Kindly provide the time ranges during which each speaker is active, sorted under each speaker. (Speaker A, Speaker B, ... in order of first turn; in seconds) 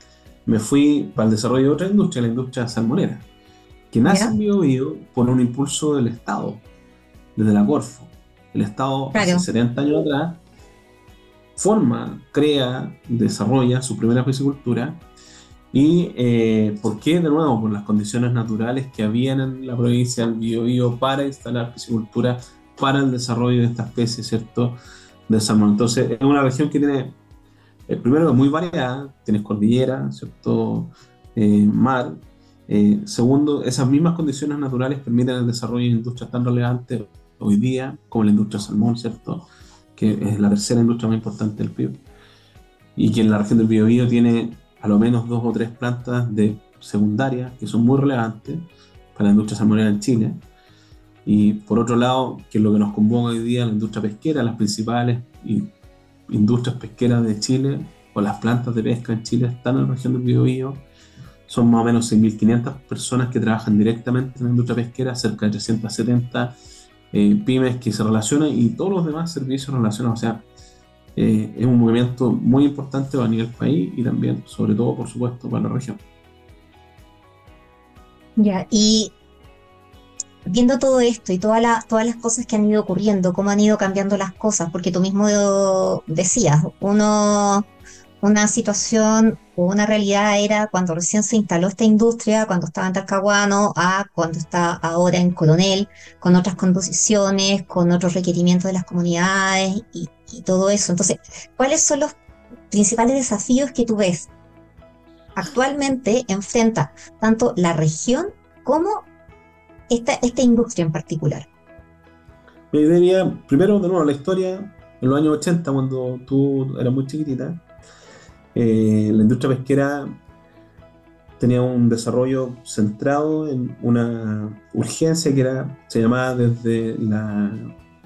Speaker A: 0.5-3.2, 3.9-6.6, 7.4-10.4, 11.6-15.0, 15.7-27.2, 27.9-42.0, 43.0-50.4, 51.2-55.7, 56.3-60.8, 61.5-66.5, 67.1-70.5, 71.2-76.0, 112.7-117.6, 118.5-120.1, 121.4-127.7
Speaker B: 4.0-4.3, 9.1-9.5, 78.4-79.1, 80.5-87.7, 88.2-102.2, 102.7-104.3, 105.4-109.1, 109.9-111.5